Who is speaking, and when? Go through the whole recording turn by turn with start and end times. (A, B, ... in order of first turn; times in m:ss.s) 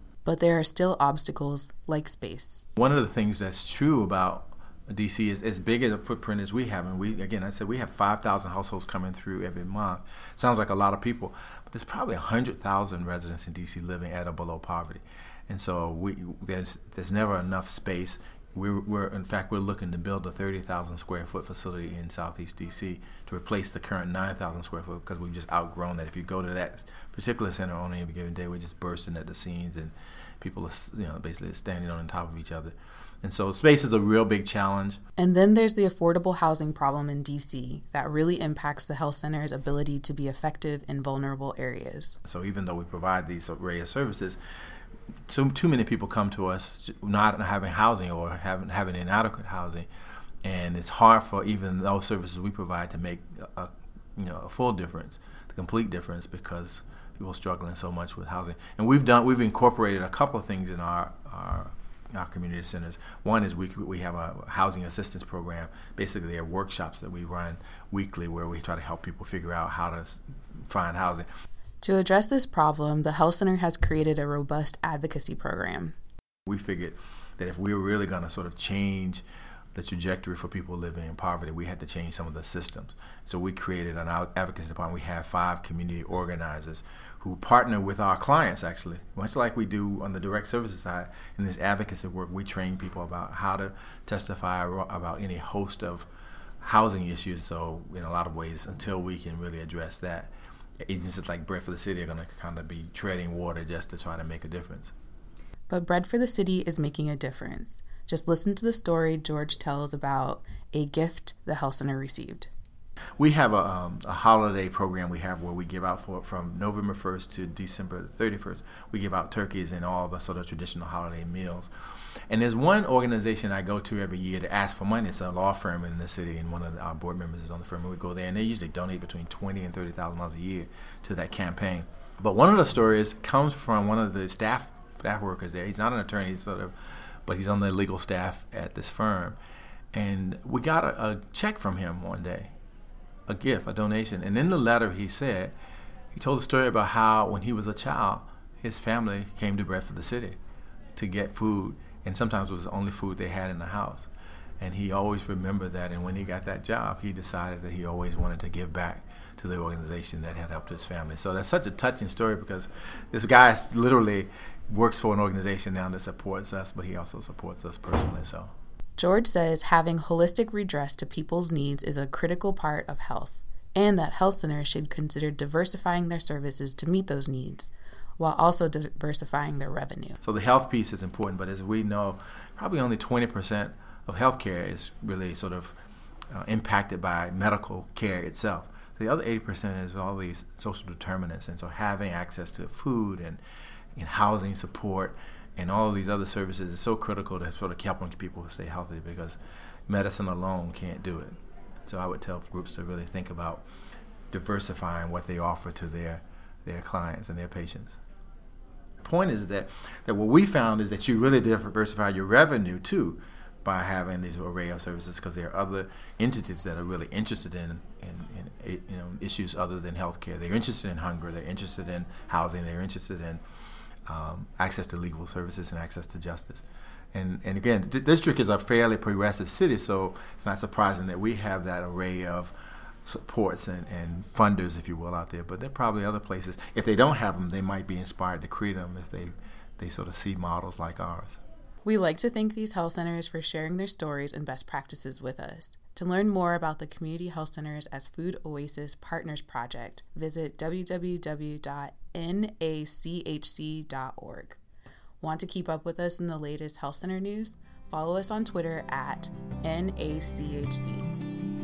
0:00.2-0:02.7 A
0:02.8-0:35.0 B
0:35.2-0:42.2 A
0:42.2-0:44.4 B
0:45.3-0:49.9 B
0:50.4-1:11.3 B
1:11.8-1:16.0 A
1:16.5-1:36.1 B
1:36.6-1:40.3 B
1:40.8-1:44.9 B
1:45.7-1:52.5 A
1:53.2-2:01.7 B
2:02.3-2:19.4 B
2:19.9-2:22.5 B
2:23.3-2:25.5 B
2:26.1-2:30.4 B
2:31.0-2:48.5 B
2:49.0-3:00.2 A
3:00.2-3:05.8 B
3:06.3-3:13.4 B
3:14.0-3:23.6 B
3:24.3-3:28.0 B
3:29.0-3:43.4 B
3:44.1-3:52.5 B
3:53.0-4:01.4 B
4:01.8-4:14.6 A
4:15.2-4:21.1 A